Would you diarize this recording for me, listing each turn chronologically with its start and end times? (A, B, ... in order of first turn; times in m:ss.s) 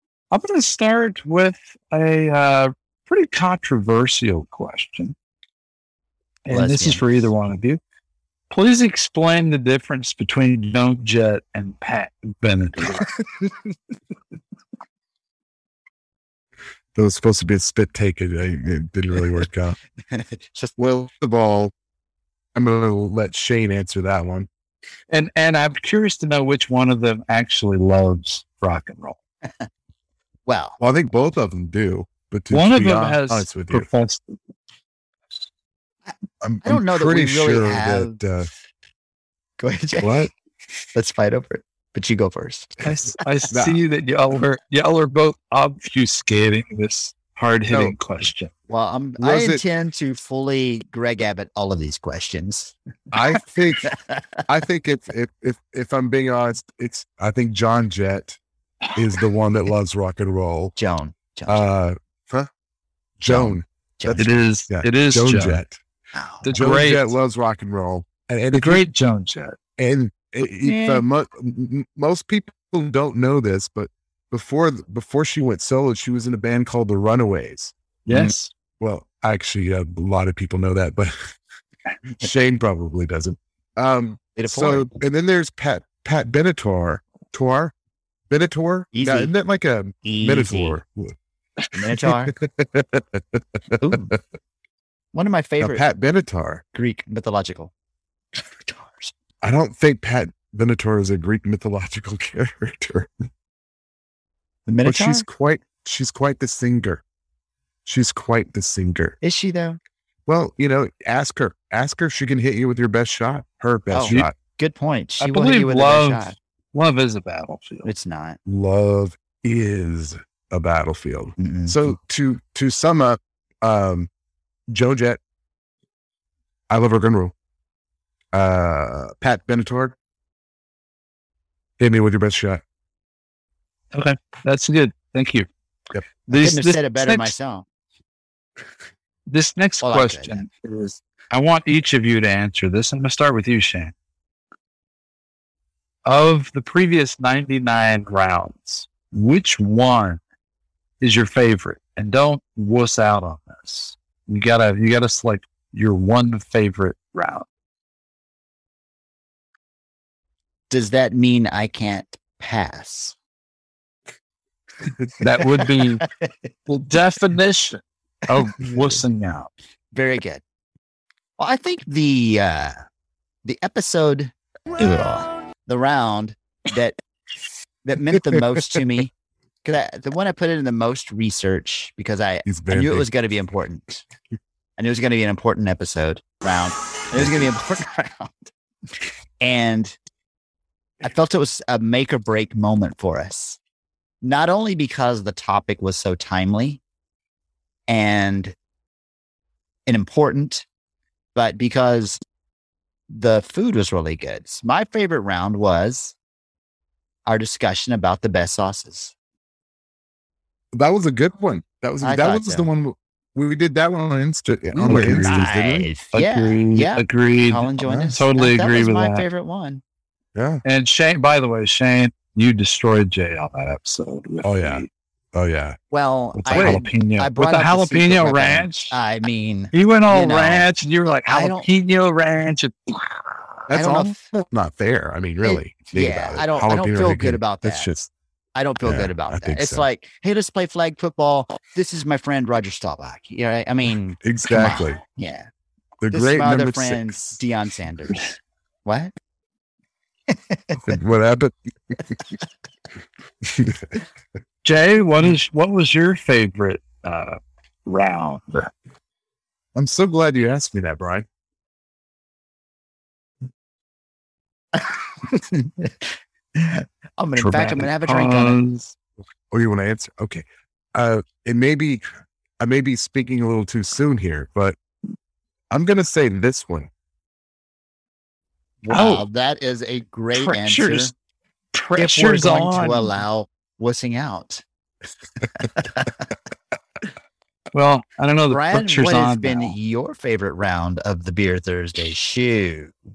0:00.3-0:05.2 A
0:06.5-0:07.8 A
0:06.5-0:07.3 B
0:08.5-0:13.1 A
0:17.0-0:19.8 C
0:20.1-0:20.7 B
0:20.8-0:21.7 C
0:22.6-0:24.5 C
0:25.1-0:29.2 A
0:30.5-0:30.8 B
0:30.8-0:33.9 C
0:32.5-0:34.4 A
0:36.4-0:38.5 C
0:36.6-0:38.2 B
0:39.6-0:40.2 B
0:40.0-0:40.3 C
0:41.0-0:42.8 B
0:42.8-0:48.5 A
0:43.5-0:43.8 C
0:47.7-0:48.0 C
0:48.7-0:52.7 B
0:49.2-0:49.6 C
0:53.1-0:53.9 C
0:53.9-0:54.2 B
0:54.5-0:58.4 C
0:59.0-1:00.8 C
1:00.8-1:01.6 B
1:01.5-1:02.5 C
1:03.2-1:04.2 B
1:03.2-1:05.8 C
1:04.2-1:05.6 A
1:06.2-1:06.5 B
1:06.4-1:07.2 A
1:06.5-1:08.9 C
1:08.5-1:09.6 A
1:09.8-1:21.2 C
1:10.6-1:11.0 B
1:18.1-1:18.5 A
1:22.2-1:27.7 C
1:24.4-1:25.0 B
1:28.3-1:31.2 C
1:28.9-1:29.3 B
1:30.0-1:30.8 B
1:31.8-1:32.3 B
1:32.1-1:33.4 C
1:33.8-1:34.1 B
1:35.1-1:35.8 B
1:35.6-1:36.6 C
1:36.7-1:37.7 B
1:38.6-1:39.1 B
1:39.4-1:43.1 C
1:44.7-1:45.2 B
1:44.8-1:47.0 C
1:47.9-1:49.2 C
1:49.2-1:49.8 B
1:50.3-1:54.4 C
1:53.9-1:56.4 B
1:54.0-1:54.3 A
1:55.2-1:57.9 A
1:57.8-1:58.4 B
1:58.5-2:04.1 C
2:01.4-2:01.8 B
2:04.7-2:05.2 C
2:06.7-2:07.3 C
2:08.3-2:10.0 C
2:11.8-2:12.6 C
2:13.9-2:15.5 A
2:16.3-2:17.4 A
2:16.3-2:17.7 B
2:19.3-2:23.9 A
2:19.8-2:20.5 B
2:26.0-2:30.2 A
2:31.0-2:37.5 A
2:40.7-2:43.2 B
2:45.2-2:46.0 A
2:46.0-2:46.3 B
2:46.7-2:49.5 A
2:49.9-2:50.4 B
2:51.4-2:52.8 B
2:53.4-2:57.0 B
2:57.8-2:59.1 B
2:59.6-3:04.0 B
3:02.5-3:03.1 C
3:04.8-3:08.4 B
3:07.2-3:07.5 C
3:09.4-3:10.0 B
3:11.0-3:13.6 B
3:14.2-3:16.8 B
3:17.9-3:18.6 B
3:19.9-3:20.7 B
3:21.4-3:22.2 B
3:23.1-3:26.2 B
3:27.3-3:29.1 B
3:30.7-3:35.9 C
3:32.0-3:32.7 B
3:34.7-3:39.8 B
3:34.8-3:35.4 A
3:36.1-3:39.3 A
3:37.8-3:38.2 C
3:40.4-3:40.6 C
3:40.6-3:44.9 A
3:44.4-3:45.8 C
3:45.9-3:50.7 B
3:46.3-3:49.0 A
3:46.5-3:46.8 C
3:49.7-3:53.7 A
3:51.3-3:51.7 B
3:53.7-3:58.1 C
3:53.7-3:54.2 B
3:55.4-3:57.9 B
3:58.6-4:05.5 B
3:58.8-3:59.9 C
4:04.2-4:05.0 C
4:06.0-4:07.4 C
4:06.1-4:08.2 B
4:08.8-4:09.1 B
4:10.3-4:10.8 B
4:10.9-4:12.0 C
4:13.4-4:13.9 C
4:14.6-4:18.7 A
4:19.8-4:21.3 C
4:24.8-4:26.0 B
4:26.6-4:28.6 B
4:27.4-4:28.9 A
4:29.5-4:32.0 C
4:32.6-4:34.8 C
4:35.7-4:36.9 C
4:38.8-4:41.1 B
4:38.9-4:39.3 A
4:40.3-4:41.1 A
4:41.7-4:43.1 A
4:42.0-4:44.6 B
4:45.8-4:46.1 B
4:47.7-4:49.8 A
4:48.5-4:52.9 B